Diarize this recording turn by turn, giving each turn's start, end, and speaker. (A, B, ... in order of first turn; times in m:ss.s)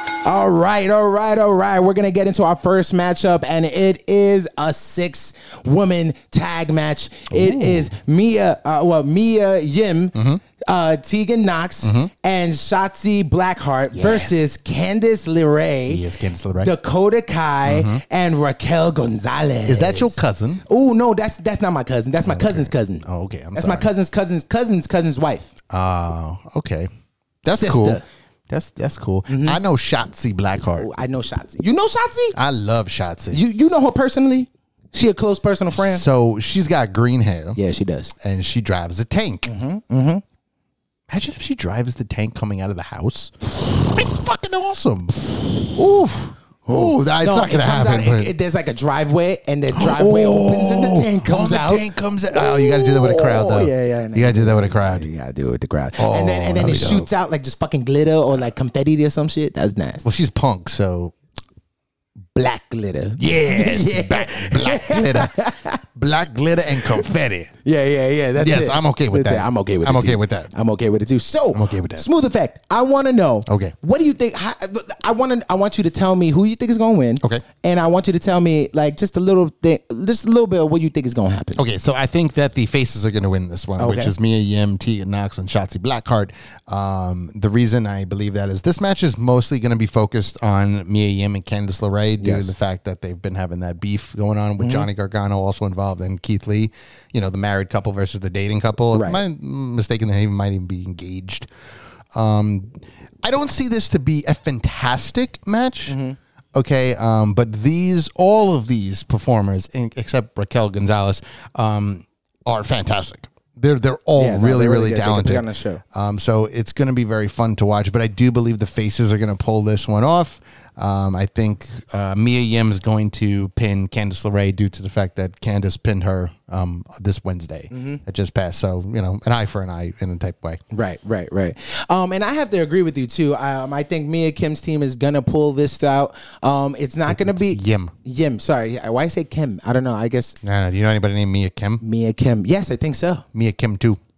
0:00.2-0:16.0 A
0:07.3-0:07.9 B
0:10.2-0:10.4 B
0:11.8-0:12.1 B
0:13.9-0:14.3 B
0:15.9-0:16.7 B
0:16.6-0:25.5 A
0:17.6-0:18.0 B
0:19.7-0:20.6 B
0:22.2-0:23.9 B
0:25.7-0:26.9 B
0:27.4-0:30.9 B
0:27.5-0:28.0 A
0:29.3-0:29.6 A
0:30.8-0:32.4 A
0:32.4-0:33.4 B
0:33.3-0:36.0 A
0:35.8-0:37.6 B
0:37.6-0:38.1 A
0:38.2-0:39.5 B
0:39.5-0:40.2 A
0:41.1-0:48.3 B
0:46.6-1:00.1 A
0:49.7-0:55.1 B
0:56.0-0:57.1 B
1:00.0-1:01.1 B
1:02.4-1:05.8 A
1:03.2-1:07.5 B
1:07.6-1:21.6 A
1:08.4-1:10.5 B
1:11.5-1:12.1 B
1:13.5-1:13.8 B
1:21.6-1:41.5 B
1:23.8-1:24.1 A
1:32.2-1:32.5 A
1:34.6-1:34.9 A
1:38.9-1:39.2 A
1:42.1-1:46.0 B
1:45.9-1:46.2 A
1:46.6-2:10.6 B
1:54.2-1:55.8 A
2:07.7-2:08.0 A
2:10.7-2:20.4 A
2:17.1-2:17.9 B
2:20.4-2:21.8 B
2:21.8-2:23.2 A
2:23.3-2:24.0 B